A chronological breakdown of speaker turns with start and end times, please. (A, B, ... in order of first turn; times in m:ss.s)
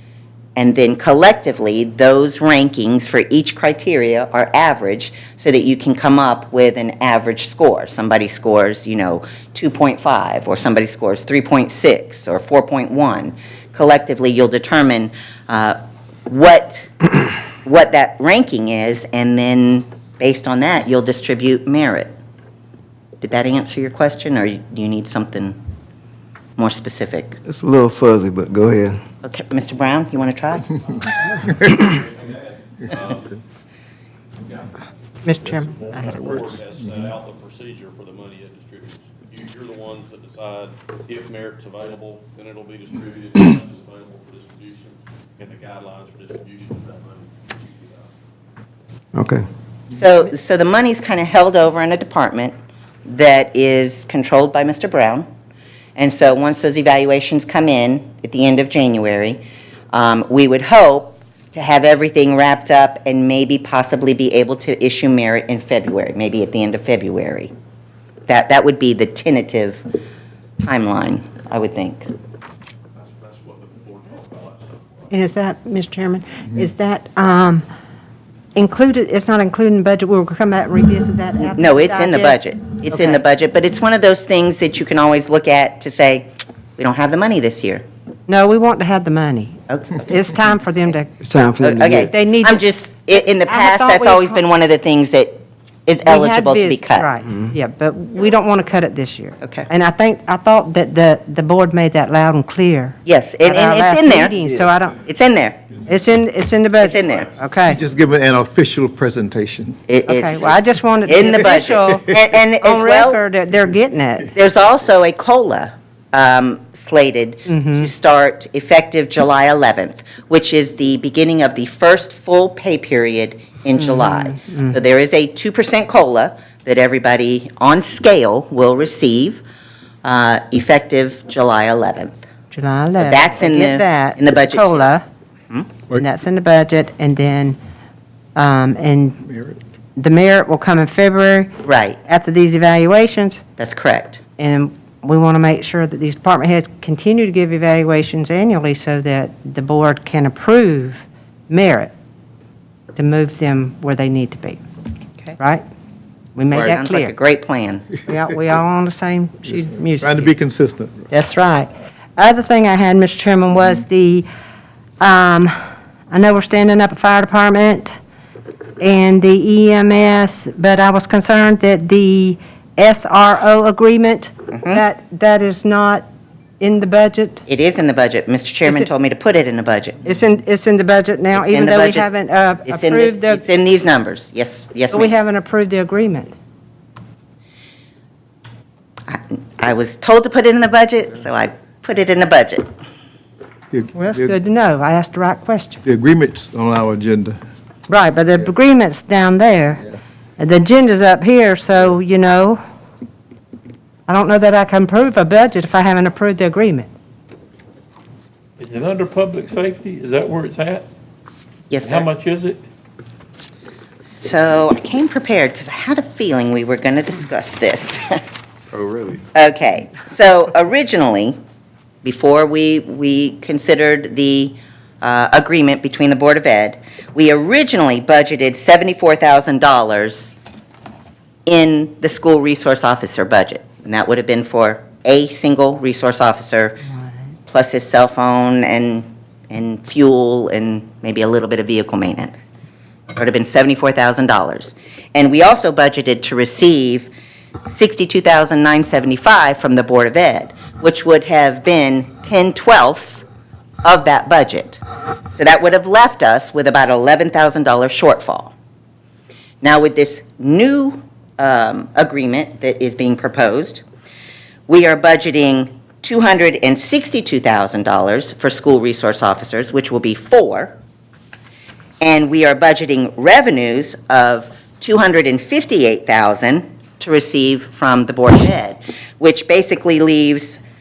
0:00.6-0:16.9 A
0:17.6-0:22.1 A
0:23.2-0:25.6 A
0:26.6-0:27.4 A
0:27.5-0:29.0 B
0:29.2-0:30.8 A
0:31.6-0:33.4 C
0:34.4-0:34.8 C
0:35.2-0:36.3 D
0:35.3-0:48.1 C
0:49.1-0:49.4 B
0:49.9-0:52.5 A
0:53.1-0:55.3 A
0:56.0-0:59.4 A
0:59.9-1:07.5 A
1:08.3-1:09.8 A
1:10.6-1:12.1 A
1:13.0-1:15.1 C
1:15.1-1:17.6 D
1:18.6-1:22.4 D
1:21.6-1:27.8 A
1:22.9-1:23.2 D
1:28.3-1:31.4 D
1:29.7-1:30.0 A
1:31.2-1:32.1 B
1:31.6-1:37.1 A
1:32.0-1:32.6 D
1:33.4-1:34.4 D
1:36.0-1:45.0 D
1:39.4-1:39.7 A
1:43.0-1:44.4 A
1:45.0-1:45.6 A
1:45.9-1:47.8 D
1:46.8-1:47.3 A
1:47.6-1:49.8 E
1:49.9-1:53.2 A
1:50.1-1:54.3 D
1:54.3-2:09.4 A
1:57.5-1:57.9 D
2:03.8-2:04.8 D
2:10.0-2:12.2 A
2:12.5-2:15.0 D
2:13.0-2:14.9 A
2:15.9-2:17.6 D
2:18.4-2:19.2 D
2:19.3-2:19.6 E
2:20.0-2:21.5 D
2:21.6-2:22.0 A
2:22.0-2:23.4 D
2:23.6-2:24.2 A
2:24.4-2:31.9 D
2:33.0-2:34.6 D
2:35.4-2:35.6 D
2:36.4-2:37.1 D
2:36.5-2:37.9 A
2:38.1-2:40.3 D
2:40.0-2:41.0 E
2:41.1-2:44.3 D
2:45.0-2:45.5 D
2:46.1-2:47.9 D
2:48.8-2:56.1 D
2:54.5-2:54.8 A
2:56.6-2:57.4 D
2:57.5-3:00.0 A
3:00.0-3:03.4 D
3:01.3-3:02.1 A
3:02.7-3:05.2 A
3:04.9-3:06.3 D
3:09.1-3:12.7 A
3:13.7-3:14.3 E
3:14.0-3:15.8 D
3:15.8-3:17.4 E
3:17.9-3:22.6 D
3:24.1-3:26.9 D
3:28.6-3:30.9 F
3:31.7-3:32.1 A
3:31.8-3:32.6 F
3:34.0-3:38.2 A
3:39.3-3:41.4 A
3:42.0-3:50.3 A
3:51.5-3:56.8 A
3:57.5-4:02.5 A
4:03.1-4:07.1 A
4:07.7-4:13.2 A
4:13.8-4:14.8 A
4:15.4-4:18.5 A
4:19.6-4:23.8 A
4:24.7-4:30.8 A
4:32.0-4:40.6 A